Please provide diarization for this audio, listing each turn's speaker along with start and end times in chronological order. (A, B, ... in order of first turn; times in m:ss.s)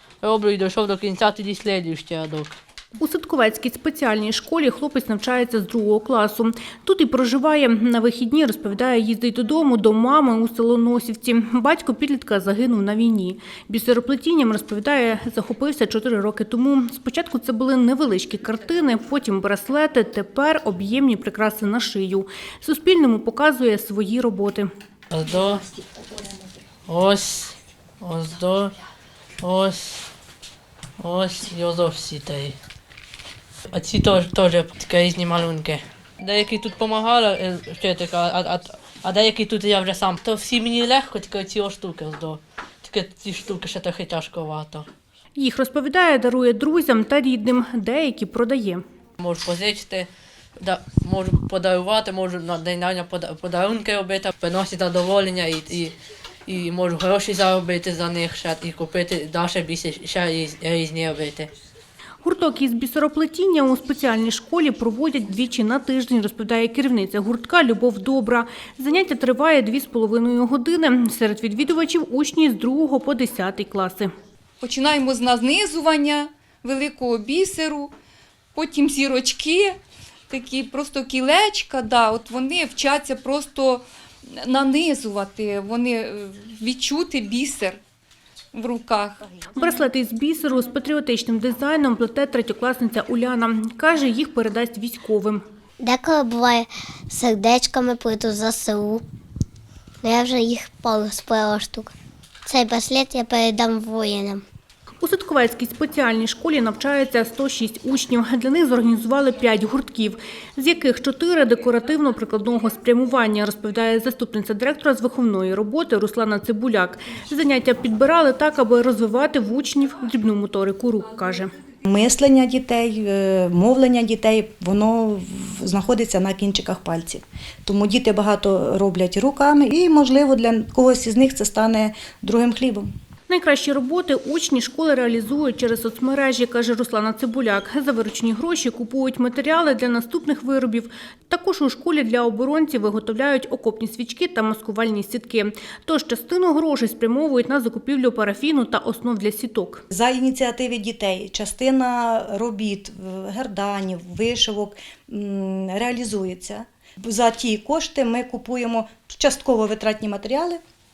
0:00.2-0:02.5 A
0:03.0-0:24.7 B
0:25.1-0:25.7 A
0:26.9-0:28.7 A
0:29.4-0:30.1 A
0:31.0-0:32.6 A
0:33.7-0:44.9 A
0:45.4-0:48.8 B
0:49.2-0:50.1 A
0:50.6-0:56.0 A
0:56.5-1:01.5 A
1:02.2-1:14.1 B
1:14.6-1:17.9 C
1:18.6-1:19.8 C
1:20.3-1:27.8 C
1:28.5-1:29.2 C
1:29.6-1:35.4 B
1:35.8-1:39.0 D
1:40.0-1:41.9 D
1:42.5-1:44.4 D
1:45.0-2:01.5 B
2:01.8-2:12.9 E
2:13.3-2:29.8 B
2:29.9-2:40.6 E